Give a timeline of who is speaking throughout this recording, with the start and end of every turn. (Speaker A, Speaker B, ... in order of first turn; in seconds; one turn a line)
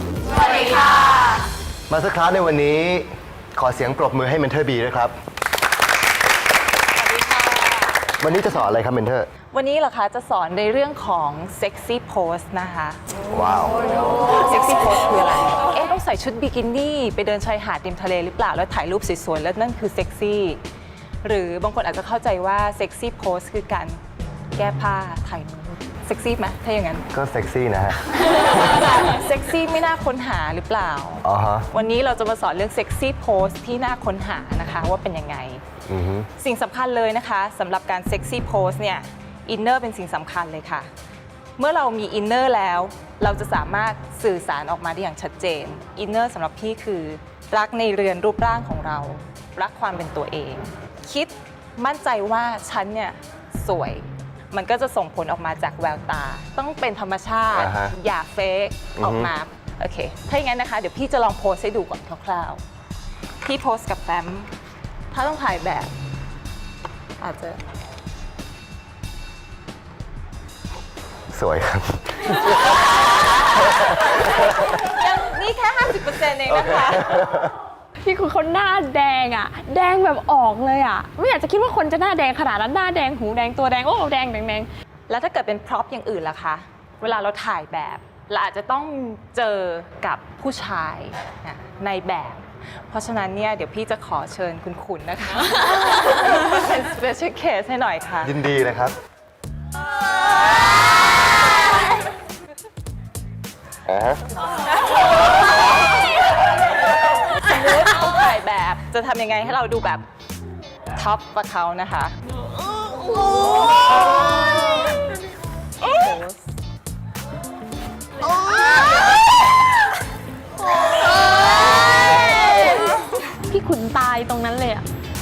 Speaker A: 1.9-5.1
Speaker B: 7.0-7.9
Speaker A: 8.2-9.3
Speaker B: 9.5-13.0
Speaker A: 13.3-13.8
Speaker B: 14.3-20.6
Speaker B: 21.2-24.0
Speaker B: 24.6-27.1
Speaker A: 27.1-28.0
Speaker B: 28.4-35.6
Speaker A: 31.2-31.7
Speaker A: 35.9-36.3
Speaker B: 36.4-40.9
Speaker B: 41.6-62.6
Speaker A: 57.5-57.9
Speaker A: 59.0-59.3
Speaker B: 63.4-64.5
Speaker B: 65.1-65.9
Speaker B: 67.2-67.6
Speaker A: 71.3-72.5
Speaker B: 74.4-77.2
Speaker A: 77.0-77.3
Speaker C: 78.0-84.7
Speaker B: 85.1-98.3
Speaker A: 98.2-99.0
Speaker A: 103.9-104.2
Speaker B: 107.4-110.0
Speaker B: 111.0-112.1
Speaker B: 115.8-116.3
Speaker C: 123.5-124.8